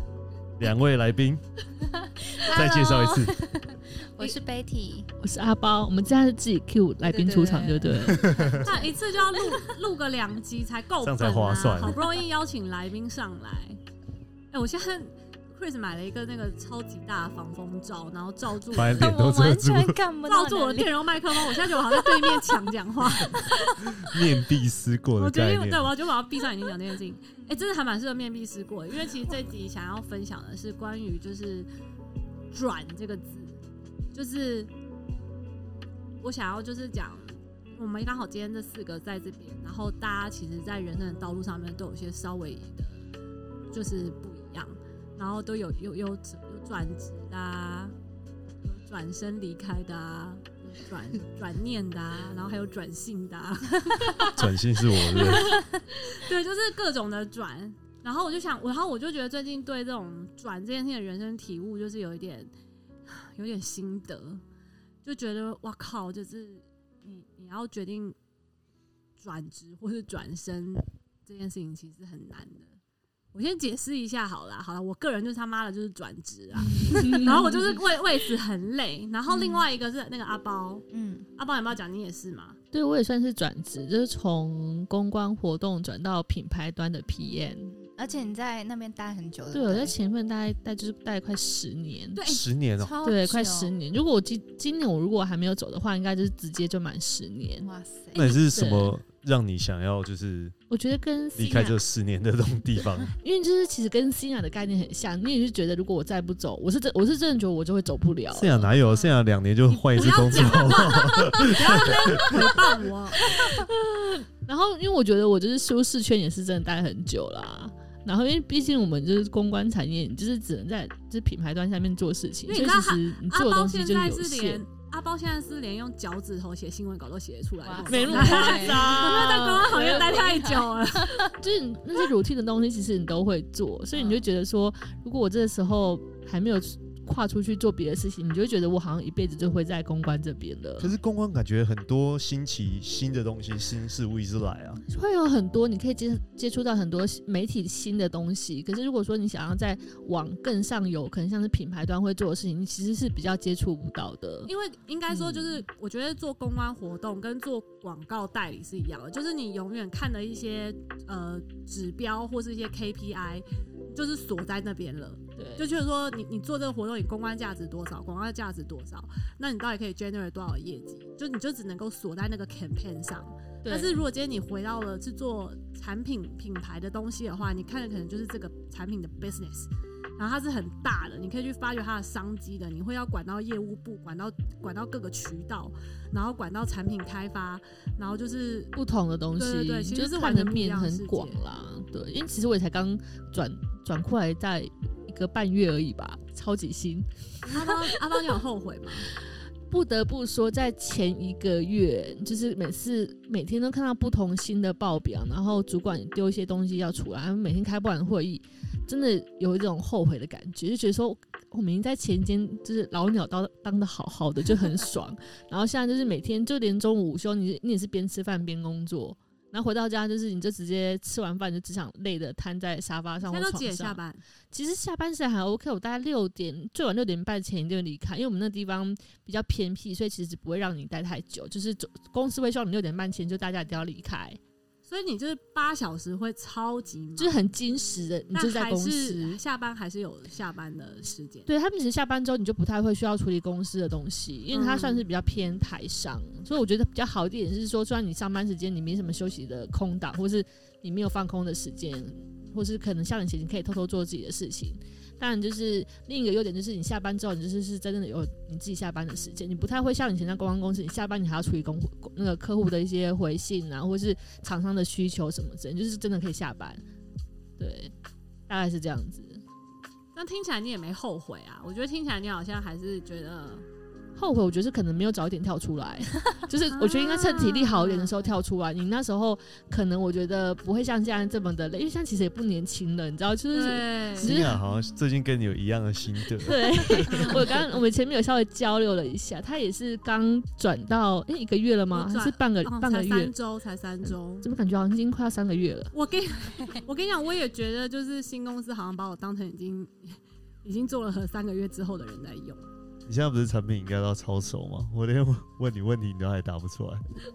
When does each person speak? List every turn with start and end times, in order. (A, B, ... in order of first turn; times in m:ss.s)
0:00.6-0:01.4 A
0:01.8-0:05.1 B
0:02.4-0:03.3 A
0:05.2-0:08.4 C
0:07.0-0:08.9 B
0:07.9-0:08.6 A
0:08.6-0:13.8 D
0:11.0-0:12.0 A
0:14.5-0:19.1 D
0:18.7-0:20.0 A
0:18.8-0:22.4 B
0:20.2-0:23.8 D
0:24.0-0:25.9 A
0:25.2-0:31.7 D
0:32.5-0:33.6 D
0:34.1-0:34.7 D
0:36.2-0:43.0 D
0:43.7-0:47.9 D
0:48.6-0:54.4 D
0:54.2-0:55.6 A
0:55.0-1:02.5 D
1:03.1-1:04.4 D
1:05.0-1:08.2 D
1:09.2-1:12.7 D
1:13.3-1:20.8 D
1:16.6-1:17.6 B
1:16.9-1:17.7 C
1:19.3-1:19.6 B
1:20.9-1:21.3 B
1:21.4-1:22.6 D
1:22.7-1:27.7 C
1:27.7-1:29.9 B
1:29.5-1:32.2 C
1:32.1-1:32.4 D
1:32.2-1:32.9 A
1:32.8-1:33.7 B
1:33.0-1:39.0 C
1:37.6-1:38.2 B
1:38.1-1:40.5 A
1:40.7-1:41.8 C
1:41.4-1:43.1 A
1:43.2-1:48.7 C
1:48.3-1:52.3 A
1:48.9-1:49.2 B
1:49.8-1:53.3 D
1:51.4-1:51.9 C
1:53.2-2:04.6 C
2:02.5-2:11.2 D
2:07.6-2:09.3 B
2:07.8-2:10.7 C
2:09.9-2:10.2 B
2:11.2-2:20.9 C
2:13.9-2:14.2 B
2:20.8-2:24.8 A
2:24.8-2:34.5 C
2:34.4-3:08.7 D
2:35.1-2:35.6 C
2:45.4-2:45.7 C
2:53.6-2:54.0 C
3:08.7-3:17.8 C
3:09.4-3:11.4 D
3:17.4-3:19.1 D
3:19.7-3:44.0 C
3:43.2-3:44.2 D
3:44.5-3:54.4 C
3:54.9-3:57.5 D
3:57.2-3:59.4 C
3:58.3-4:01.5 D
4:01.5-4:26.8 C
4:04.5-4:05.0 D
4:27.6-4:27.9 C
4:28.5-4:29.4 C
4:30.1-4:33.6 D
4:34.2-4:44.6 C
4:36.8-4:38.2 D
4:43.5-4:44.3 D
4:44.2-4:47.6 A
4:46.4-4:53.3 C
4:47.1-4:47.4 D
4:51.9-4:54.5 D
4:54.0-4:55.9 C
4:55.9-5:02.7 D
5:03.1-5:07.0 A